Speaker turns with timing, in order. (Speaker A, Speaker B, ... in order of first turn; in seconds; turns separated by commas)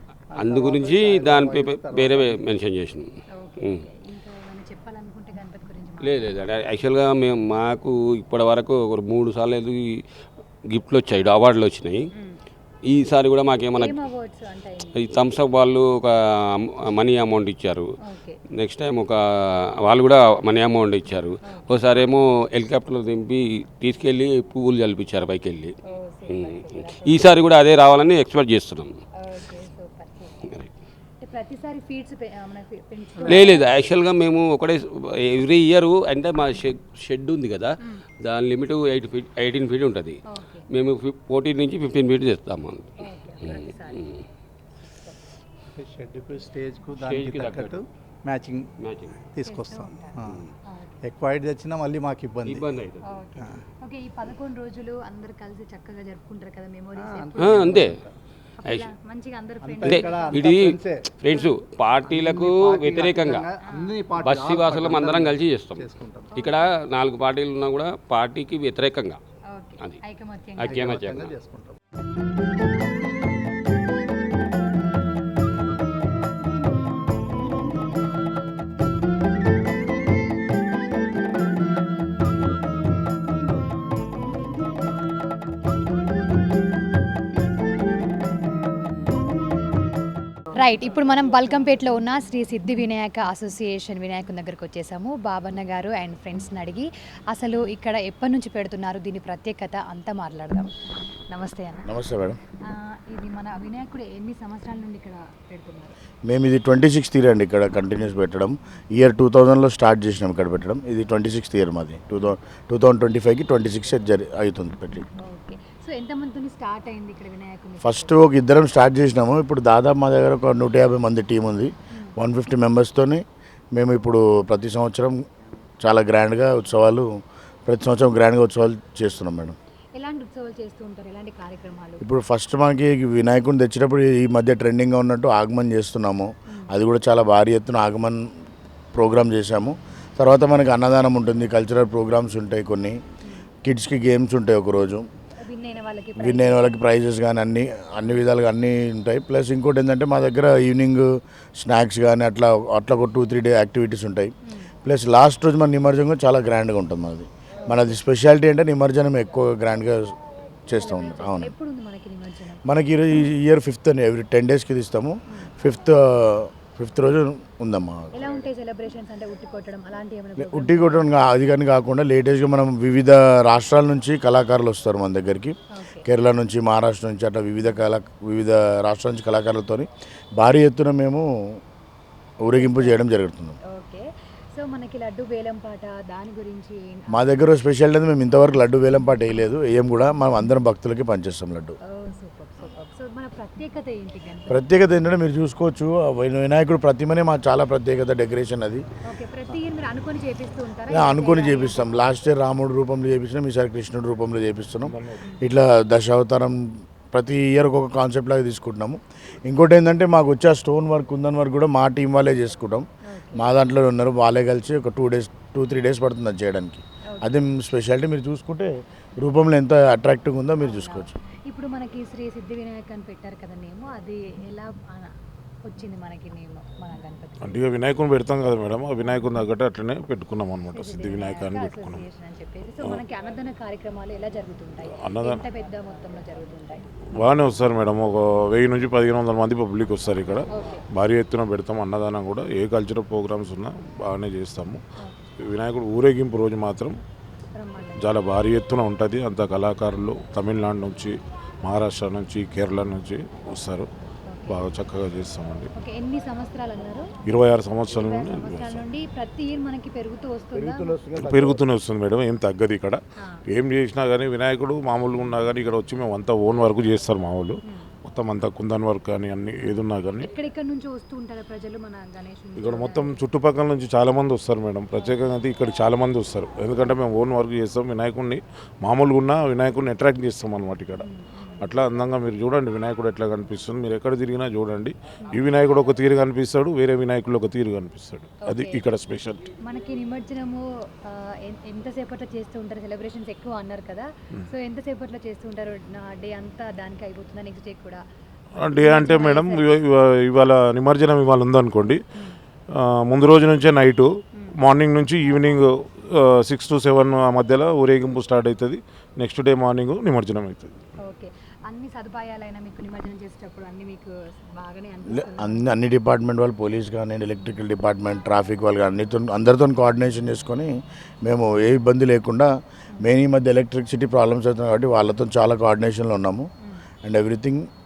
Speaker A: 0.3-2.4, Speaker B: 0.4-3.1, Speaker C: 3.4-6.3, Speaker B: 6.0-10.0, Speaker B: 10.7-12.0, Speaker B: 12.9-14.0, Speaker C: 13.8-15.0, Speaker B: 15.0-17.9, Speaker C: 18.1-18.4, Speaker B: 18.6-19.2, Speaker B: 19.9-25.7, Speaker C: 25.9-27.4, Speaker B: 26.3-28.9, Speaker C: 29.2-30.5, Speaker C: 31.2-33.7, Speaker B: 33.2-37.7, Speaker B: 38.2-40.2, Speaker C: 40.3-40.7, Speaker B: 40.7-42.9, Speaker C: 43.0-44.1, Speaker B: 43.4-44.2, Speaker C: 44.9-45.2, Speaker A: 45.8-48.7, Speaker B: 46.9-47.8, Speaker B: 48.8-49.1, Speaker A: 49.3-50.5, Speaker C: 49.5-51.0, Speaker A: 51.0-52.7, Speaker B: 52.5-53.0, Speaker C: 53.0-57.9, Speaker A: 53.4-53.6, Speaker A: 57.0-58.1, Speaker B: 57.4-58.0, Speaker C: 58.6-60.7, Speaker A: 59.6-61.1, Speaker B: 59.8-63.5, Speaker C: 61.3-61.5, Speaker A: 62.1-66.3, Speaker C: 63.7-64.0, Speaker B: 64.2-69.2, Speaker C: 66.3-66.7, Speaker C: 69.5-70.8, Speaker B: 70.6-71.3, Speaker A: 70.7-71.8, Speaker C: 90.5-100.7, Speaker C: 101.3-101.9, Speaker D: 101.9-102.4, Speaker C: 102.7-106.0, Speaker D: 106.3-115.1, Speaker C: 115.2-118.2, Speaker D: 117.8-123.2, Speaker D: 123.8-125.2, Speaker D: 125.8-127.1, Speaker D: 127.7-129.6, Speaker C: 130.0-132.0, Speaker D: 132.0-138.2, Speaker D: 138.9-143.0, Speaker D: 143.7-145.1, Speaker C: 145.4-146.8, Speaker D: 146.2-154.3, Speaker D: 154.8-160.2, Speaker C: 157.7-157.9, Speaker D: 160.7-161.5, Speaker C: 160.8-162.6, Speaker D: 162.7-168.4, Speaker C: 165.3-165.9, Speaker C: 168.2-171.1, Speaker D: 170.4-181.3, Speaker C: 175.8-176.1, Speaker D: 182.4-183.6, Speaker C: 182.6-182.9, Speaker C: 183.7-187.3, Speaker D: 187.1-191.8, Speaker C: 191.9-194.6, Speaker D: 194.5-198.8, Speaker C: 199.1-201.9, Speaker D: 200.9-221.2, Speaker E: 204.8-205.2, Speaker C: 205.2-205.5, Speaker C: 213.1-213.4, Speaker C: 217.1-217.4, Speaker C: 220.6-225.1, Speaker C: 225.7-227.6, Speaker E: 227.4-232.0, Speaker C: 230.7-236.8, Speaker E: 235.0-235.4, Speaker E: 237.2-244.8, Speaker C: 240.5-240.8, Speaker E: 245.5-247.0, Speaker C: 247.5-248.1, Speaker E: 248.0-253.9, Speaker C: 254.3-254.6, Speaker E: 254.5-255.7, Speaker C: 255.8-257.1, Speaker E: 257.3-258.8, Speaker C: 257.9-260.9, Speaker D: 260.6-261.6, Speaker E: 261.1-270.3, Speaker C: 269.6-273.2, Speaker E: 272.6-281.1, Speaker C: 275.0-275.3, Speaker C: 281.0-281.7, Speaker E: 281.6-289.5, Speaker C: 288.4-288.9, Speaker C: 289.6-298.0, Speaker E: 298.6-302.0, Speaker C: 298.8-299.7, Speaker E: 302.8-310.7, Speaker C: 311.0-315.6, Speaker D: 315.1-320.7, Speaker D: 321.2-322.5, Speaker D: 323.0-326.5, Speaker D: 327.1-327.7